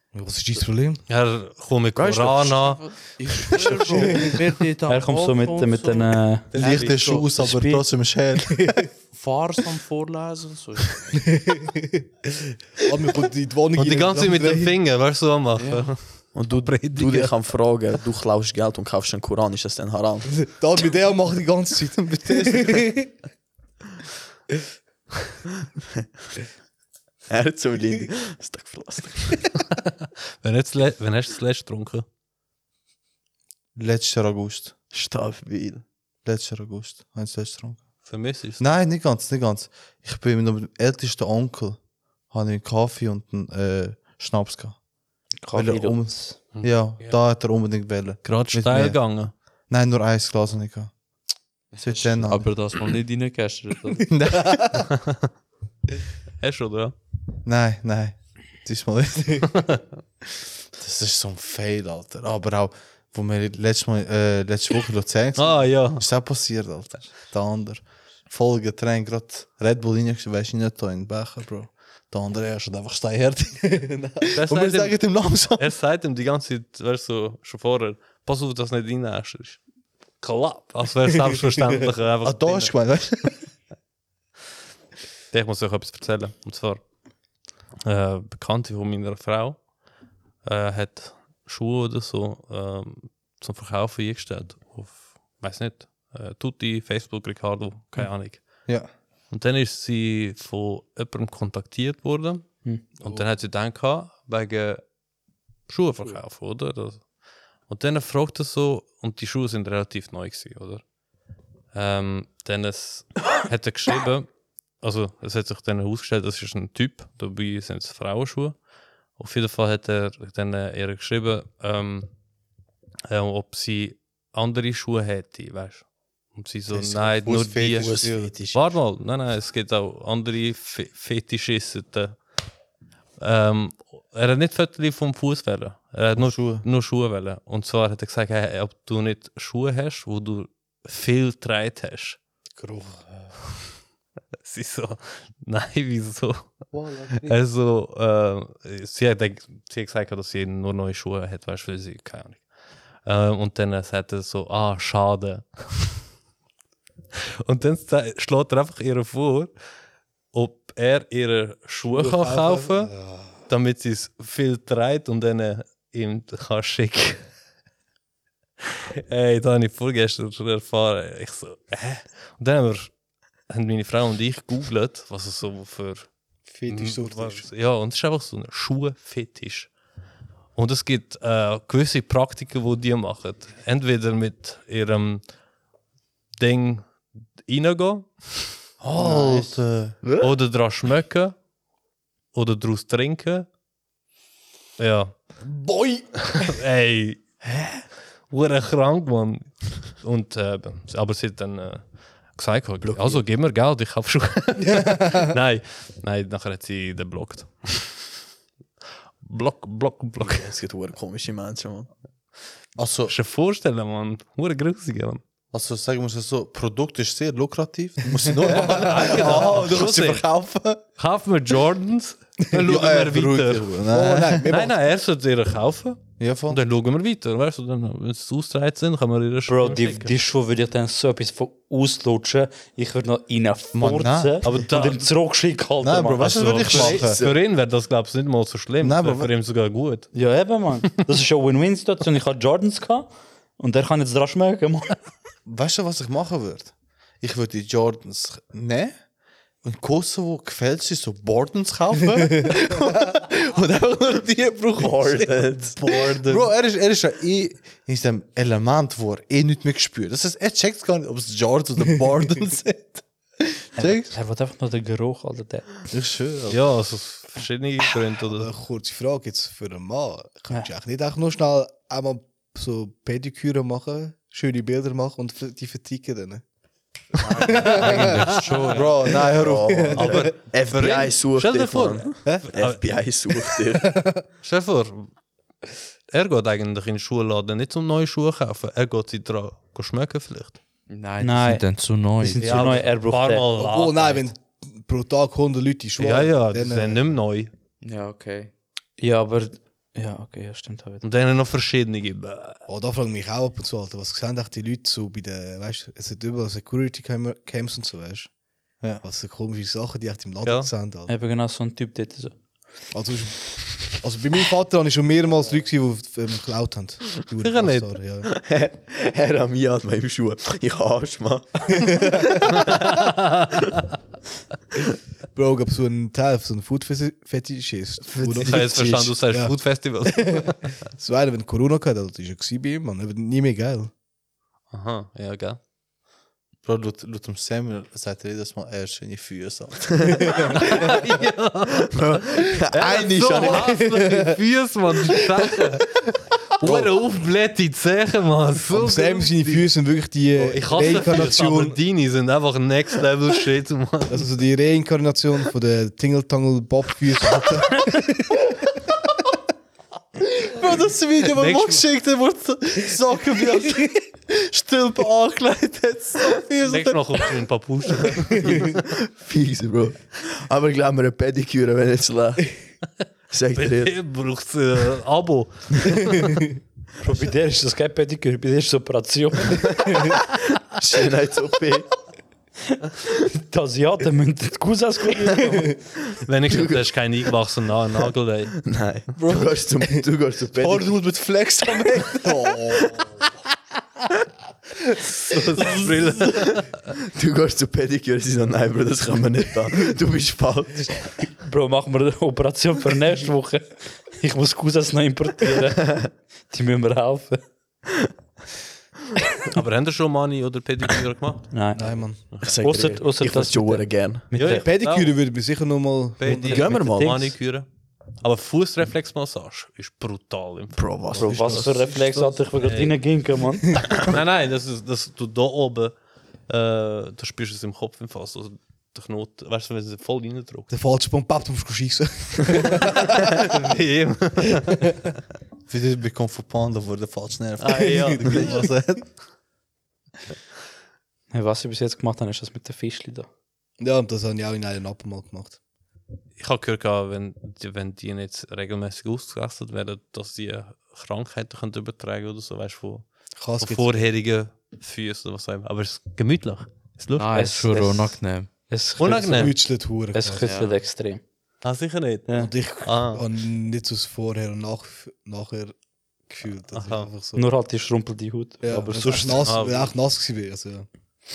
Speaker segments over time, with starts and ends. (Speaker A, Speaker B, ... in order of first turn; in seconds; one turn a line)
Speaker A: 0.1-1.0
Speaker B: 1.1-2.8
Speaker C: 1.9-2.7
Speaker D: 2.6-7.2
Speaker A: 3.9-4.4
Speaker E: 4.9-7.8
Speaker B: 6.5-7.0
Speaker F: 6.5-8.9
Speaker D: 9.1-11.1
Speaker A: 11.1-14.7
Speaker B: 13.8-17.4
Speaker D: 15.6-15.9
Speaker C: 16.3-20.3
Speaker A: 20.3-23.1
Speaker F: 22.0-22.9
Speaker C: 27.3-29.4
Speaker B: 30.4-32.0
Speaker F: 33.8-34.7
Speaker C: 34.9-35.8
Speaker F: 36.2-37.8
Speaker B: 38.0-38.7
Speaker F: 38.6-41.8
Speaker F: 42.3-44.8
Speaker E: 45.4-46.4
Speaker F: 45.5-49.0
Speaker B: 46.5-47.2
Speaker B: 48.2-49.3
Speaker F: 49.7-50.9
Speaker D: 51.7-54.0
Speaker F: 51.8-52.5
Speaker F: 54.0-54.9
Speaker B: 56.4-56.9
Speaker F: 57.4-59.5
Speaker B: 59.5-59.8
Speaker F: 60.8-75.7
Speaker B: 65.4-66.0
Speaker A: 73.8-74.3
Speaker B: 74.3-79.6
Speaker B: 80.2-82.8
Speaker F: 82.2-83.4
Speaker B: 85.3-86.8
Speaker B: 87.8-89.7
Speaker B: 90.4-98.6
Speaker B: 99.3-104.8
Speaker A: 103.0-103.2
Speaker B: 105.7-107.1
Speaker B: 107.7-110.8
Speaker B: 111.7-114.3
Speaker B: 114.8-118.6
Speaker B: 119.2-122.1
Speaker B: 123.1-127.9
Speaker F: 126.7-128.3
Speaker C: 127.8-128.6
Speaker B: 128.5-132.2
Speaker B: 133.2-142.2
Speaker F: 136.2-136.6
Speaker A: 142.6-143.0
Speaker B: 144.4-146.5
Speaker F: 146.7-147.3
Speaker B: 147.2-152.4
Speaker B: 153.0-156.0
Speaker B: 157.4-159.5
Speaker B: 160.3-162.9
Speaker A: 161.8-163.3
Speaker B: 163.5-167.2
Speaker B: 168.9-172.9
Speaker B: 173.5-176.1
Speaker A: 176.5-177.5
Speaker B: 176.7-179.7
Speaker B: 180.6-185.2
Speaker B: 186.4-188.2
Speaker F: 188.8-190.0
Speaker C: 190.0-190.3
Speaker B: 190.2-191.3
Speaker B: 192.3-193.5
Speaker B: 194.8-195.2
Speaker A: 195.4-196.3
Speaker B: 196.3-197.2
Speaker B: 198.3-208.1
Speaker C: 202.8-203.2
Speaker A: 204.7-205.3
Speaker B: 209.2-210.5
Speaker C: 210.2-211.9
Speaker F: 212.8-213.1
Speaker B: 213.1-215.2
Speaker F: 215.5-220.8
Speaker A: 218.3-219.1
Speaker B: 218.4-220.2
Speaker B: 221.0-223.7
Speaker F: 222.5-224.5
Speaker A: 223.9-224.7
Speaker B: 224.5-230.2
Speaker F: 226.2-226.6
Speaker E: 229.5-236.8
Speaker F: 233.7-234.5
Speaker B: 234.4-235.1
Speaker F: 235.8-237.2
Speaker B: 236.2-240.1
Speaker C: 236.7-237.3
Speaker F: 238.8-239.3
Speaker E: 240.1-245.0
Speaker F: 245.4-248.9
Speaker F: 249.6-253.2
Speaker C: 253.3-256.5
Speaker F: 254.8-264.2
Speaker E: 263.8-265.7
Speaker F: 265.9-266.6
Speaker B: 266.5-268.5
Speaker A: 268.3-276.4
Speaker B: 277.2-278.9
Speaker C: 277.3-277.7
Speaker A: 277.4-278.2
Speaker D: 277.8-278.9
Speaker F: 278.7-280.1
Speaker A: 279.1-280.3
Speaker C: 279.3-283.9
Speaker B: 279.9-282.8
Speaker A: 282.2-282.5
Speaker A: 283.5-284.2
Speaker B: 284.4-285.1
Speaker B: 286.1-290.6
Speaker D: 290.9-292.7
Speaker E: 291.2-291.6
Speaker E: 292.2-293.5
Speaker B: 292.4-294.2
Speaker A: 293.6-297.0
Speaker B: 296.0-297.5
Speaker D: 297.8-298.5
Speaker E: 299.0-301.0
Speaker B: 301.0-302.6
Speaker A: 302.7-308.3
Speaker A: 309.0-311.1
Speaker B: 310.4-310.7
Speaker E: 311.1-312.4
Speaker A: 312.9-318.3
Speaker B: 317.4-317.9
Speaker C: 318.2-322.1
Speaker A: 321.7-322.7
Speaker B: 322.6-323.6
Speaker A: 325.3-333.9
Speaker C: 328.2-328.5
Speaker B: 328.4-330.7
Speaker B: 334.7-335.6
Speaker F: 336.6-340.6
Speaker A: 340.2-340.9
Speaker B: 340.5-349.7
Speaker C: 341.9-343.8
Speaker A: 343.4-344.3
Speaker A: 346.6-346.9
Speaker A: 348.7-351.8
Speaker B: 350.4-354.3
Speaker A: 354.1-358.6
Speaker F: 360.4-367.3
Speaker B: 361.3-361.8
Speaker B: 366.6-368.7
Speaker C: 368.6-372.5
Speaker C: 373.3-374.0
Speaker B: 373.5-376.4
Speaker E: 377.0-380.2
Speaker C: 380.8-381.9
Speaker E: 383.3-385.8
Speaker B: 386.2-388.6
Speaker C: 386.5-386.9
Speaker C: 388.6-390.9
Speaker F: 389.1-389.5
Speaker F: 390.6-393.0
Speaker B: 395.2-396.8
Speaker C: 397.1-401.0
Speaker E: 401.4-407.4
Speaker C: 405.8-406.1
Speaker B: 409.5-411.5
Speaker E: 411.5-412.0
Speaker A: 411.8-412.3
Speaker B: 412.3-412.6
Speaker C: 412.4-414.3
Speaker E: 412.6-414.7
Speaker B: 414.3-415.1
Speaker A: 414.4-416.8
Speaker B: 416.2-417.7
Speaker C: 416.3-417.4
Speaker E: 416.8-417.2
Speaker B: 418.2-420.8
Speaker C: 420.7-421.8
Speaker E: 421.2-424.0
Speaker A: 421.2-422.2
Speaker B: 422.6-423.0
Speaker B: 423.9-425.9
Speaker B: 426.5-430.7
Speaker A: 430.7-433.5
Speaker B: 432.5-434.9
Speaker F: 435.7-439.0
Speaker B: 437.6-438.7
Speaker A: 437.7-438.7
Speaker E: 441.3-443.3
Speaker A: 443.8-445.6
Speaker B: 446.4-453.1
Speaker A: 453.4-454.1
Speaker B: 453.6-457.3
Speaker D: 457.1-458.5
Speaker E: 457.3-459.6
Speaker B: 459.0-459.6
Speaker A: 459.1-460.4
Speaker E: 460.1-461.2
Speaker D: 460.4-460.8
Speaker B: 461.6-463.2
Speaker A: 462.3-465.7
Speaker A: 466.3-467.5
Speaker B: 466.7-467.1
Speaker E: 467.4-469.4
Speaker A: 468.6-470.9
Speaker B: 469.4-469.9